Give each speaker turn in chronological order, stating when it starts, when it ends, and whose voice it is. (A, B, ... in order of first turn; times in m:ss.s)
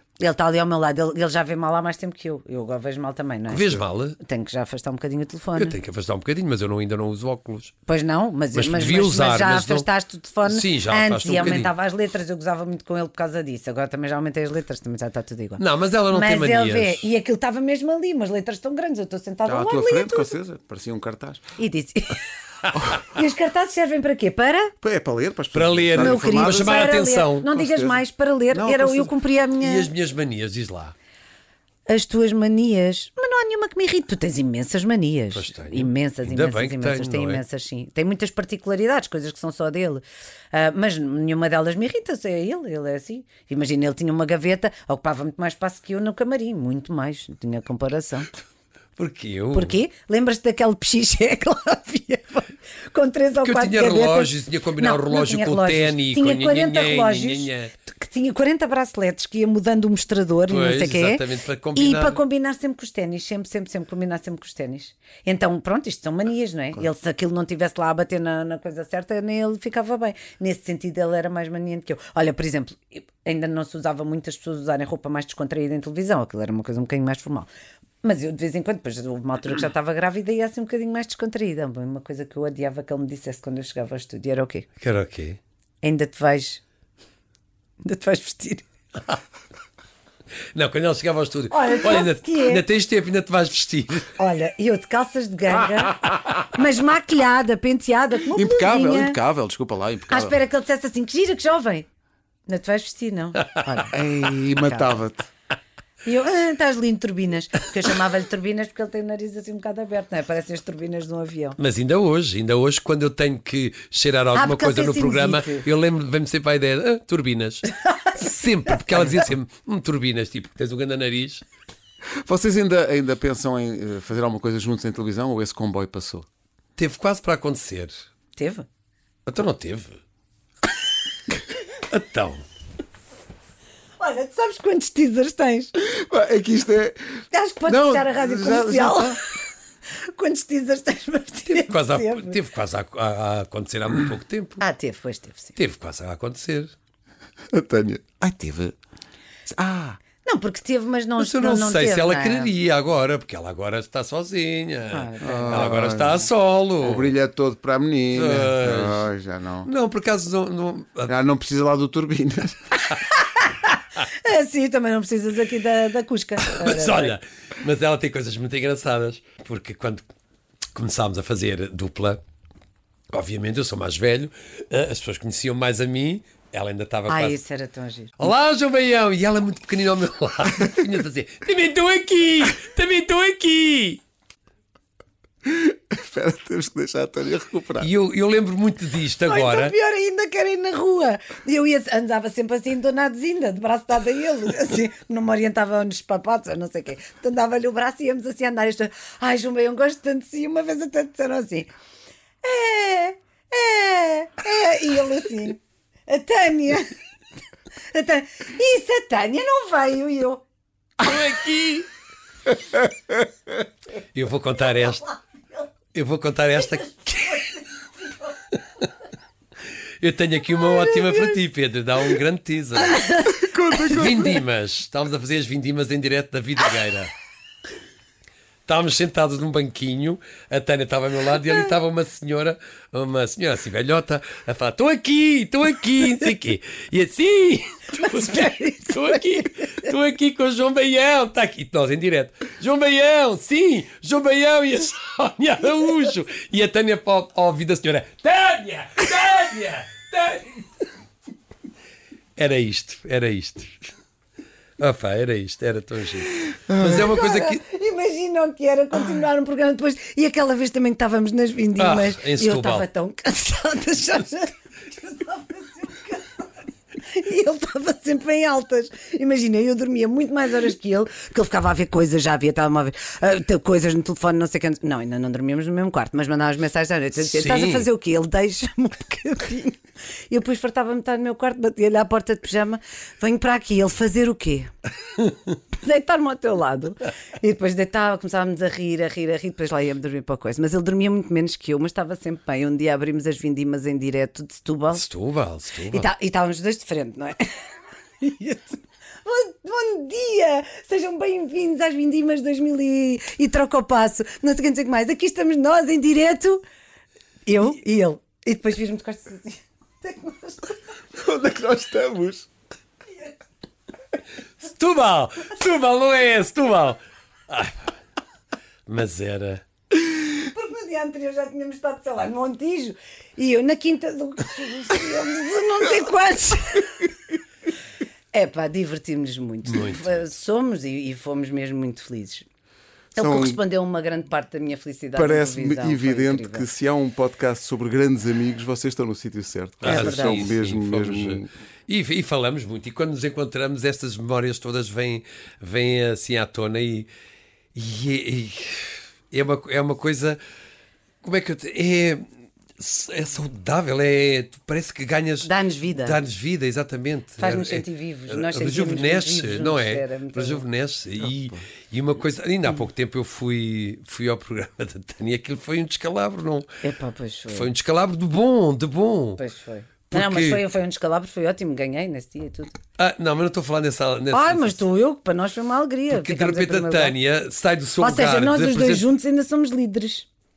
0:00.2-0:05.8 A
0:03.5-0:04.2 B
0:05.6-0:07.8 B
0:07.9-0:20.4 A
0:08.5-0:09.9 B
0:10.4-0:11.7 B
0:15.6-0:17.0 B
0:19.5-0:21.5 C
0:21.6-0:22.2 A
0:22.9-0:24.7 A
0:24.8-0:26.9 C
0:25.5-0:27.5 B
0:26.0-0:29.9 A
0:27.5-0:29.1 C
0:29.6-0:30.9 B
0:31.9-0:48.3 A
0:35.3-0:37.4 B
0:49.0-0:49.8 B
0:49.5-1:01.2 A
0:53.4-0:57.7 B
1:00.5-1:02.2 B
1:01.8-1:17.5 A
1:18.0-1:24.7 A
1:24.8-1:25.4 B
1:25.8-1:26.6 A
1:27.8-1:28.7 A
1:30.5-1:34.1 B
1:31.5-1:32.6 A
1:34.2-1:39.2 A
1:38.3-1:40.4 C
1:40.1-1:41.9 A
1:42.5-1:45.0 A
1:43.9-1:45.3 C
1:46.0-1:51.6 A
1:51.6-2:01.4 B
1:54.3-1:55.7 A
1:58.7-1:59.2 A
2:02.2-2:06.3 C
2:06.8-2:08.0 B
2:08.4-2:08.7 A
2:09.3-2:10.0 B
2:11.8-2:12.4 B
2:14.0-2:15.7 A
2:15.8-2:19.2 C
2:17.3-2:19.4 A
2:20.0-2:22.4 A
2:21.5-2:24.6 B
2:24.6-2:25.6 A
2:25.6-2:26.7 B
2:27.5-2:28.8 C
2:29.5-2:30.0 C
2:30.2-2:32.5 A
2:31.2-2:37.1 B
2:34.9-2:35.7 A
2:35.2-2:36.3 C
2:36.8-2:39.7 C
2:38.1-2:39.1 B
2:39.6-2:41.1 B
2:41.1-2:42.9 C
2:43.3-2:47.2 A
2:46.4-2:50.0 B
2:50.7-2:52.2 B
2:53.1-2:57.4 B
2:57.1-2:58.2 A
2:58.2-3:04.0 B
3:05.4-3:07.9 C
3:07.8-3:09.7 B
3:09.3-3:21.7 A
3:22.4-3:26.9 A
3:27.9-3:30.4 A
3:31.0-3:31.9 B
3:34.1-3:35.2 B
3:35.9-3:37.6 B
3:40.0-3:43.1 B
3:42.9-3:43.4 A
3:43.3-3:44.4 C
3:43.8-3:47.1 B
3:48.7-4:10.8 B
3:58.0-3:59.0 A
4:12.4-4:13.8 B
4:14.8-4:17.6 B
4:16.7-4:17.0 C
4:16.8-4:26.5 A
4:21.8-4:22.9 B
4:27.0-4:39.8 A
4:37.2-4:37.9 B
4:40.3-4:44.7 A
4:45.8-4:55.0 A
4:54.9-4:56.1 B
4:55.9-4:57.5 A
4:58.2-5:06.6 A
5:07.5-5:10.8 A
5:11.2-5:12.5 C
5:14.6-5:17.9 B
5:18.9-5:19.6 B
5:20.4-5:27.0 A
5:28.3-5:32.5 A
5:29.6-5:30.2 B
5:33.2-5:33.6 C
5:33.2-5:36.7 A
5:35.2-5:41.5 C
5:39.8-5:47.1 B
5:39.8-5:40.5 A
5:47.8-5:50.4 B
5:51.2-5:52.3 B
5:52.8-6:06.8 B
5:55.4-5:56.2 A
5:57.4-6:00.6 A
6:01.2-6:01.6 C
6:06.8-6:07.7 A
6:07.5-6:09.4 B
6:09.4-6:12.7 A
6:10.1-6:10.6 B
6:13.0-6:14.8 B
6:14.3-6:17.2 A
6:16.1-6:19.1 B
6:18.0-6:20.3 A